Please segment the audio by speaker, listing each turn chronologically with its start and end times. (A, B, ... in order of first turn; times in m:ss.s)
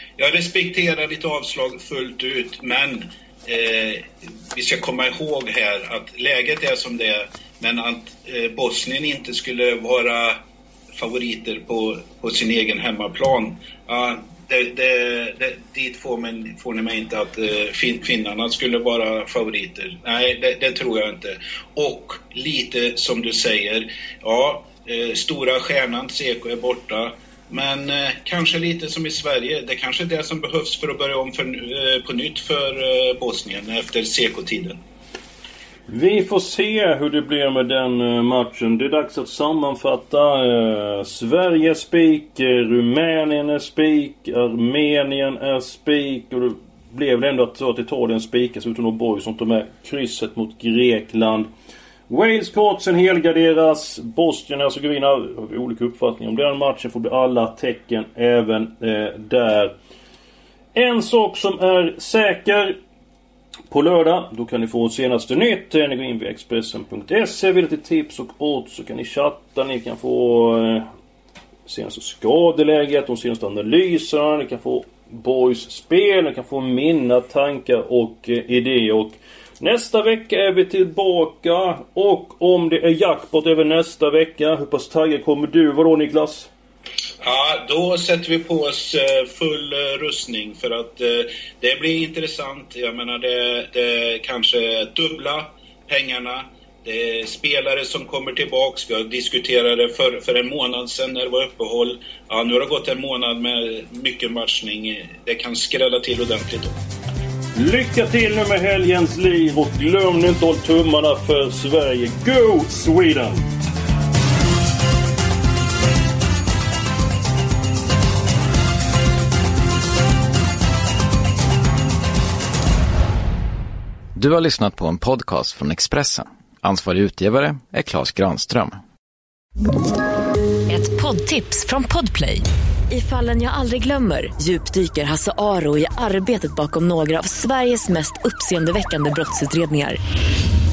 0:00.2-0:10.4 A
0:11.0-0:34.8 A
0:35.9-0:51.5 B
0:52.1-0:59.7 B
1:00.8-1:02.8 B
1:03.7-1:10.8 B
1:11.6-1:26.5 B
1:27.2-1:46.8 A
1:47.5-1:53.4 B
2:04.2-2:08.8 C
2:10.7-2:20.0 D